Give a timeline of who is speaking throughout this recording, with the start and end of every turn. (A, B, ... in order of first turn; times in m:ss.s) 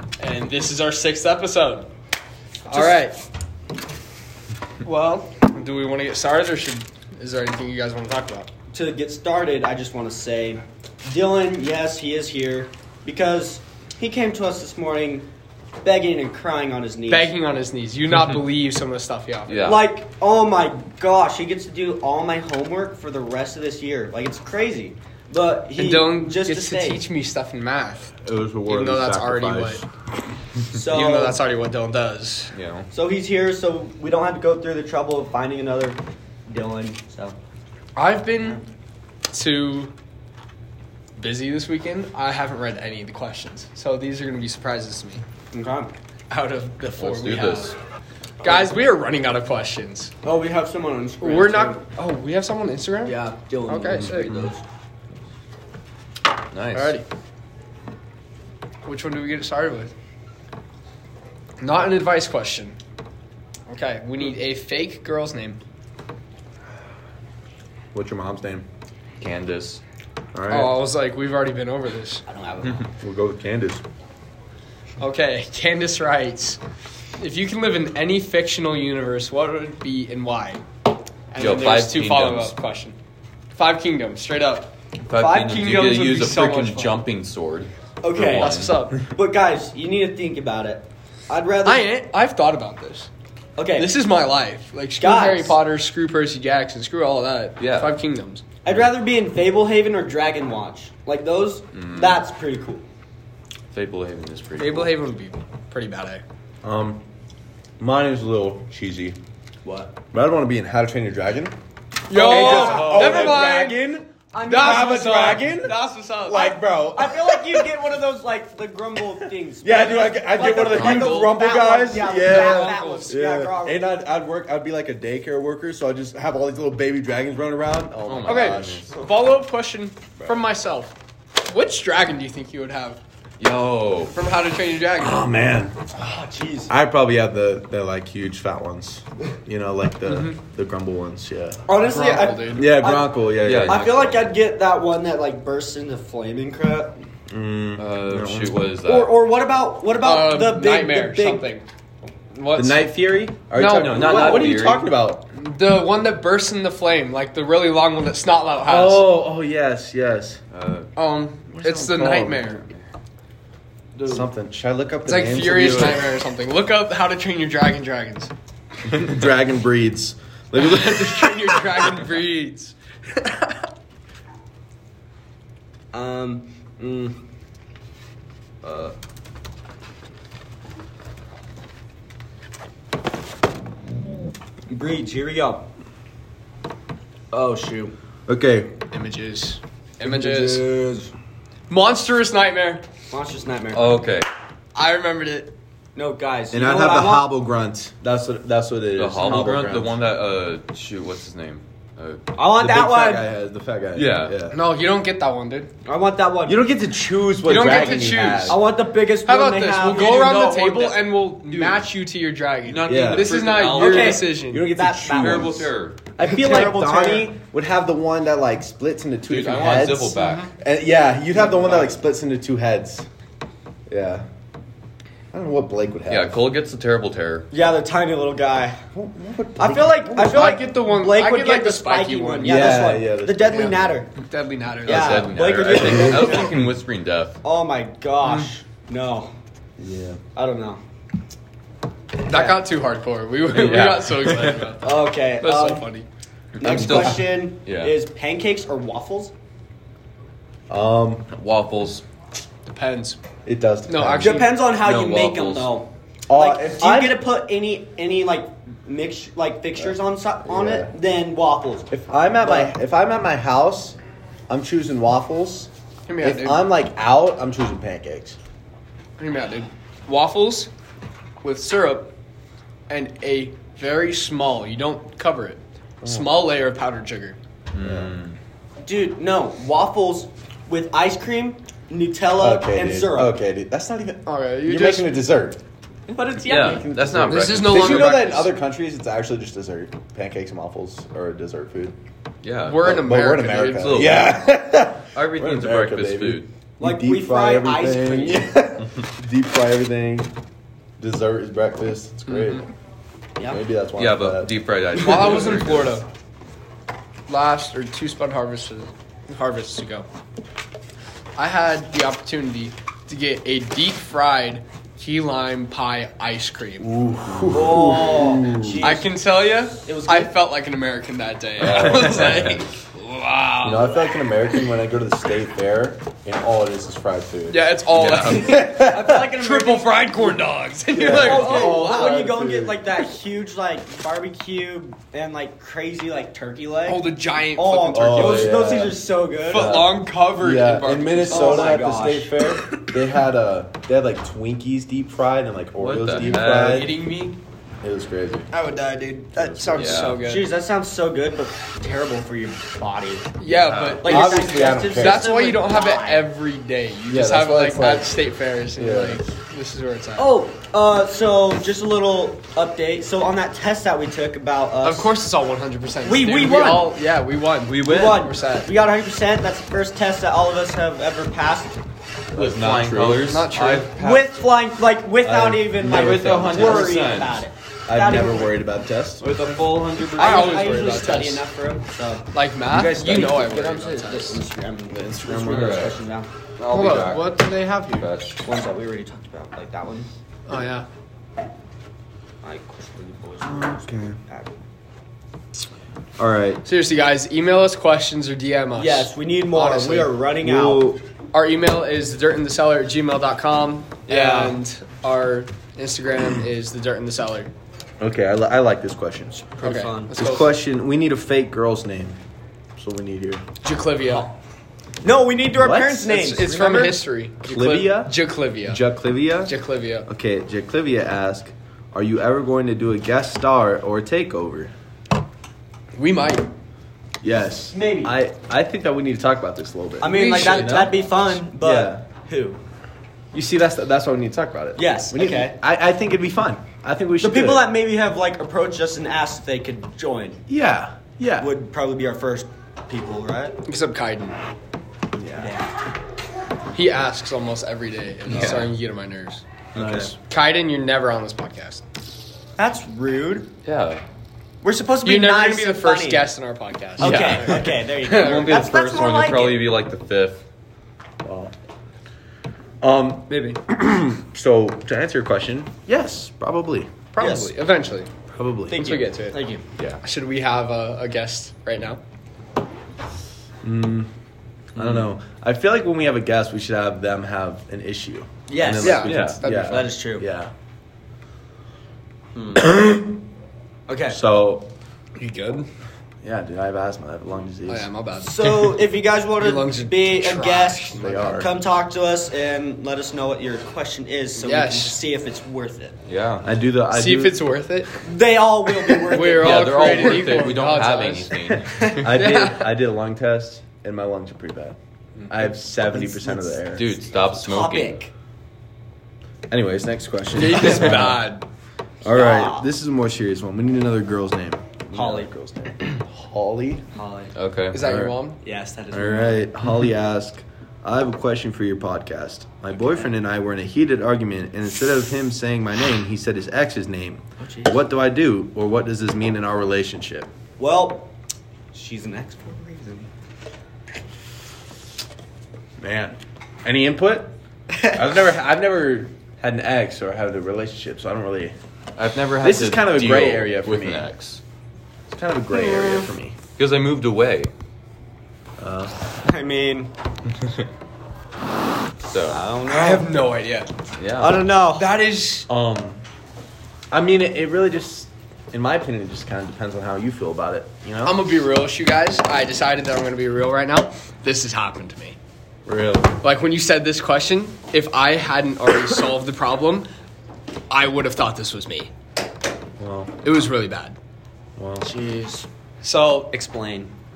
0:00.2-0:01.9 A
0:02.6-0:03.0 B
0:02.7-0:03.2 A
0:04.8-0:08.5 A
0:08.7-0:15.3 B
0:15.8-0:17.3 B
0:17.1-0:19.8 A
0:18.1-0:18.4 C
0:19.5-0:19.9 C
0:19.6-0:27.0 B
0:25.8-0:28.1 A
0:28.2-0:29.8 D
0:28.7-0:29.8 A
0:30.7-0:31.4 B
0:30.8-0:32.5 A
0:32.5-0:32.9 C
0:32.9-0:37.4 B
0:38.0-0:38.6 A
0:39.3-0:39.9 A
0:41.2-0:45.2 A
0:45.5-0:46.0 B
0:46.3-0:47.8 A
0:46.9-0:47.8 C
0:48.4-0:48.7 B
0:48.4-0:50.1 A
0:50.2-0:51.8 B
0:51.2-0:54.5 A
0:53.0-0:54.6 B
0:53.9-0:54.5 C
0:56.5-0:57.0 C
0:56.7-0:57.0 A
0:58.8-0:59.9 A
1:01.6-1:02.8 A
1:03.7-1:05.6 A
1:07.9-1:08.7 D
1:09.2-1:09.8 C
1:10.3-1:10.7 D
1:10.5-1:12.2 A
1:12.3-1:12.9 B
1:12.9-1:13.8 D
1:15.0-1:16.6 A
1:17.2-1:20.6 A
1:21.3-1:23.0 A
1:21.4-1:22.5 C
1:23.5-1:24.7 A
1:25.0-1:28.8 C
1:25.3-1:27.0 A
1:28.0-1:31.9 B
1:28.3-1:29.0 A
1:31.6-1:33.1 A
1:33.6-1:33.9 B
1:33.8-1:38.4 A
1:35.0-1:35.6 B
1:37.6-1:37.9 C
1:38.6-1:42.8 B
1:41.7-1:42.2 C
1:43.7-1:44.9 C
1:44.6-1:46.2 A
1:46.6-1:47.0 D
1:47.8-1:49.2 D
1:49.6-1:50.0 B
1:50.1-1:51.6 D
1:52.1-1:53.8 A
1:52.1-1:53.4 C
1:52.2-1:57.7 D
1:52.3-1:53.6 B
1:54.3-1:55.3 B
1:54.4-1:56.6 A
1:56.3-2:03.8 B
1:59.2-2:08.9 D
2:00.4-2:01.4 C
2:02.2-2:03.2 A
2:08.1-2:08.9 C
2:08.2-2:13.0 A
2:08.9-2:09.3 B
2:13.4-2:14.1 C
2:14.1-2:15.3 A
2:15.0-2:15.9 D
2:15.9-2:16.7 B
2:16.7-2:21.6 D
2:20.1-2:20.4 A
2:21.7-2:27.0 B
2:21.8-2:22.7 A
2:22.5-2:23.9 D
2:23.4-2:24.3 C
2:27.3-2:28.6 D
2:27.8-2:29.2 C
2:28.8-2:31.5 B
2:30.0-2:31.6 A
2:32.3-2:33.0 A
2:32.6-2:35.2 D
2:33.5-2:34.5 A
2:33.7-2:34.9 C
2:35.3-2:39.1 A
2:38.6-2:40.4 D
2:40.5-2:40.9 C
2:41.0-2:42.7 A
2:41.5-2:42.5 D
2:44.0-2:44.3 C
2:44.1-2:46.0 D
2:45.1-2:48.3 A
2:48.8-2:52.0 D
2:50.5-2:53.2 A
2:55.9-2:57.2 B
2:58.6-2:59.0 B
3:04.7-3:05.7 B
3:07.3-3:08.0 B
3:08.3-3:08.7 D
3:08.9-3:10.6 A
3:10.0-3:10.7 D
3:10.1-3:11.1 B
3:11.7-3:12.8 A
3:13.1-3:14.0 B
3:13.7-3:14.3 C
3:14.8-3:15.6 A
3:16.0-3:17.3 B
3:16.5-3:20.0 D
3:19.0-3:22.2 C
3:22.4-3:23.2 B
3:22.5-3:24.6 D
3:24.0-3:24.4 C
3:24.5-3:25.7 A
3:25.8-3:26.6 B
3:26.4-3:28.6 D
3:27.4-3:28.6 A
3:27.5-3:27.9 B
3:28.5-3:30.4 B
3:29.2-3:34.7 A
3:29.9-3:31.9 C
3:32.6-3:34.3 C
3:32.8-3:33.3 D
3:33.7-3:35.7 B
3:34.5-3:35.7 D
3:35.1-3:36.0 C
3:36.2-3:43.1 D
3:36.2-3:37.3 B
3:39.3-3:40.5 C
3:40.1-3:40.5 B
3:41.3-3:42.0 B
3:43.9-3:44.2 D
3:45.3-3:46.4 D
3:46.1-3:47.5 C
3:47.5-3:48.8 B
3:48.9-3:50.5 D
3:49.6-3:54.1 B
3:50.2-3:52.9 A
3:52.4-3:53.9 D
3:53.5-3:55.2 A
3:54.8-3:57.4 C
3:54.9-3:56.6 B
3:55.8-3:56.4 D
3:57.4-3:59.3 B
3:58.2-3:58.5 A
3:59.8-4:00.2 D
4:00.4-4:00.8 B
4:02.2-4:06.1 A
4:02.3-4:02.6 B
4:03.5-4:04.7 C
4:04.8-4:05.9 B
4:06.6-4:08.0 C
4:06.6-4:09.3 B
4:06.6-4:07.2 D
4:10.7-4:11.3 D
4:11.3-4:12.0 C
4:12.7-4:13.2 A
4:13.4-4:14.5 D
4:13.9-4:14.5 A
4:14.2-4:22.7 B
4:14.7-4:15.7 C
4:16.3-4:17.2 D
4:19.8-4:20.9 D
4:21.9-4:24.0 D
4:24.5-4:25.7 D
4:26.1-4:26.7 A
4:26.2-4:28.4 D
4:29.2-4:30.7 A
4:31.4-4:32.1 A
4:32.9-4:37.4 A
4:36.0-4:36.4 D
4:37.7-4:38.4 C
4:37.8-4:38.1 D
4:38.8-4:43.3 B
4:42.4-4:45.6 D
4:44.2-4:45.1 A
4:46.1-4:47.3 B
4:46.4-4:48.2 C
4:47.2-4:52.0 D
4:47.3-4:48.5 A
4:52.4-4:52.8 C
4:52.6-4:54.1 A
4:52.8-5:00.3 D
4:53.8-4:54.4 C
4:55.1-4:56.5 C
4:56.8-4:58.4 B
5:01.0-5:02.7 D
5:02.3-5:02.6 A
5:03.4-5:03.6 B
5:03.5-5:04.5 D
5:04.0-5:06.0 C
5:05.0-5:06.1 A
5:07.3-5:10.1 A
5:11.4-5:16.9 A
5:16.8-5:18.9 D
5:17.5-5:19.2 B
5:18.8-5:24.1 A
5:19.8-5:20.3 B
5:21.6-5:22.6 C
5:23.6-5:27.7 D
5:27.5-5:32.2 A
5:27.9-5:28.5 C
5:28.3-5:29.2 D
5:28.8-5:30.0 B
5:30.9-5:32.8 D
5:31.0-5:39.7 B
5:36.8-5:38.7 A
5:37.9-5:47.0 D
5:39.5-5:41.8 A
5:41.3-5:42.4 B
5:45.8-5:46.9 C
5:46.2-5:47.4 A
5:47.8-5:48.5 D
5:48.5-5:50.5 A
5:49.4-5:50.2 C
5:49.8-5:53.3 B
5:53.4-6:00.4 A
5:53.4-5:54.1 C
5:54.0-5:56.3 B
5:54.0-5:55.3 D
5:57.1-5:58.1 D
5:58.8-5:59.2 D
6:00.2-6:05.1 B
6:04.8-6:08.7 A
6:06.0-6:06.9 B
6:07.6-6:08.3 C
6:07.8-6:11.8 B
6:12.3-6:13.3 D
6:12.4-6:14.4 C
6:13.2-6:13.9 A
6:14.0-6:18.6 B
6:15.2-6:17.1 D
6:15.8-6:17.5 C
6:17.9-6:19.2 D
6:19.2-6:21.0 C
6:19.6-6:22.3 B
6:20.2-6:21.5 A
6:22.3-6:24.4 A
6:22.9-6:26.3 B
6:24.9-6:25.8 D
6:25.5-6:26.0 C
6:26.6-6:28.4 C
6:26.7-6:28.1 A
6:28.4-6:30.1 B
6:30.5-6:30.9 A
6:32.4-6:34.5 B
6:33.4-6:34.2 D
6:36.2-6:36.6 D
6:36.6-6:40.1 A
6:38.8-6:40.8 B
6:40.4-6:41.0 D
6:41.3-6:47.5 A
6:44.1-6:44.6 B
6:48.0-6:49.5 D
6:49.6-6:50.1 B
6:49.6-6:50.5 A
6:50.1-6:52.2 D
6:52.8-6:53.4 D
6:53.6-6:54.3 A
6:55.0-6:57.0 B
6:55.6-6:56.1 D
6:56.1-6:58.8 A
6:57.4-6:59.6 D
6:59.5-7:00.1 A
7:00.1-7:04.7 D
7:06.0-7:06.5 A
7:07.2-7:12.0 D
7:07.7-7:08.1 B
7:10.0-7:12.6 B
7:10.0-7:10.9 A
7:13.3-7:17.7 D
7:14.8-7:15.6 B
7:17.2-7:20.4 B
7:20.5-7:21.5 D
7:21.4-7:23.6 B
7:23.6-7:24.4 A
7:25.1-7:25.6 D
7:25.4-7:25.7 B
7:26.7-7:29.4 A
7:28.3-7:28.7 D
7:29.7-7:30.1 D
7:29.8-7:30.1 C
7:30.1-7:31.8 A
7:32.6-7:33.5 B
7:33.6-7:34.0 C
7:34.6-7:36.3 B
7:35.0-7:38.6 A
7:37.0-7:39.7 B
7:37.0-7:40.4 C
7:41.2-7:41.5 D
7:42.8-7:46.9 D
7:43.3-7:43.6 A
7:47.1-7:48.1 A
7:47.2-7:47.5 B
7:48.3-7:49.0 D
7:48.7-7:49.6 B
7:48.7-7:49.4 A
7:50.0-7:52.0 A
7:53.6-7:54.1 D
7:54.7-8:00.5 D
7:54.8-7:55.1 C
7:58.5-7:59.1 B
7:58.8-7:59.9 A
7:59.1-7:59.4 C
7:59.6-8:00.3 B
8:02.6-8:03.2 D
8:03.9-8:04.2 B
8:04.1-8:04.7 D
8:05.2-8:05.7 A
8:06.2-8:07.9 D
8:07.7-8:08.7 A
8:08.2-8:16.0 B
8:09.4-8:11.4 A
8:11.0-8:11.5 D
8:14.4-8:15.0 A
8:16.1-8:16.5 C
8:16.4-8:17.4 D
8:16.9-8:17.9 A
8:18.0-8:20.6 B
8:19.1-8:21.3 A
8:19.1-8:22.1 C
8:21.9-8:24.8 D
8:22.1-8:22.7 A
8:25.3-8:27.0 D
8:25.9-8:26.6 B
8:26.7-8:28.0 C
8:27.3-8:28.1 B
8:29.5-8:31.3 D
8:30.4-8:31.4 A
8:32.0-8:36.9 D
8:32.1-8:32.7 B
8:34.9-8:35.3 B
8:36.9-8:37.3 B
8:37.4-8:37.8 C
8:37.7-8:38.4 A
8:37.8-8:38.2 D
8:38.4-8:39.4 B
8:38.9-8:50.3 D
8:47.4-8:47.8 B
8:50.6-8:51.1 B
8:51.7-8:53.1 B
8:55.8-9:01.6 D
9:02.0-9:04.4 C
9:02.4-9:04.1 D
9:05.1-9:06.4 D
9:05.5-9:06.1 B
9:06.6-9:07.5 C
9:08.6-9:09.0 D
9:09.2-9:09.9 B
9:12.0-9:12.4 C
9:12.3-9:13.1 B
9:12.7-9:13.7 A
9:14.0-9:14.4 C
9:14.2-9:14.8 B
9:14.8-9:15.5 A
9:15.5-9:16.0 D
9:16.9-9:21.2 D
9:21.0-9:25.2 A
9:25.7-9:26.2 D
9:26.2-9:29.9 A
9:30.7-9:31.9 A
9:32.8-9:33.1 D
9:33.2-9:34.0 A
9:34.6-9:34.9 D
9:34.8-9:35.5 B
9:35.8-9:36.3 A
9:36.3-9:36.9 B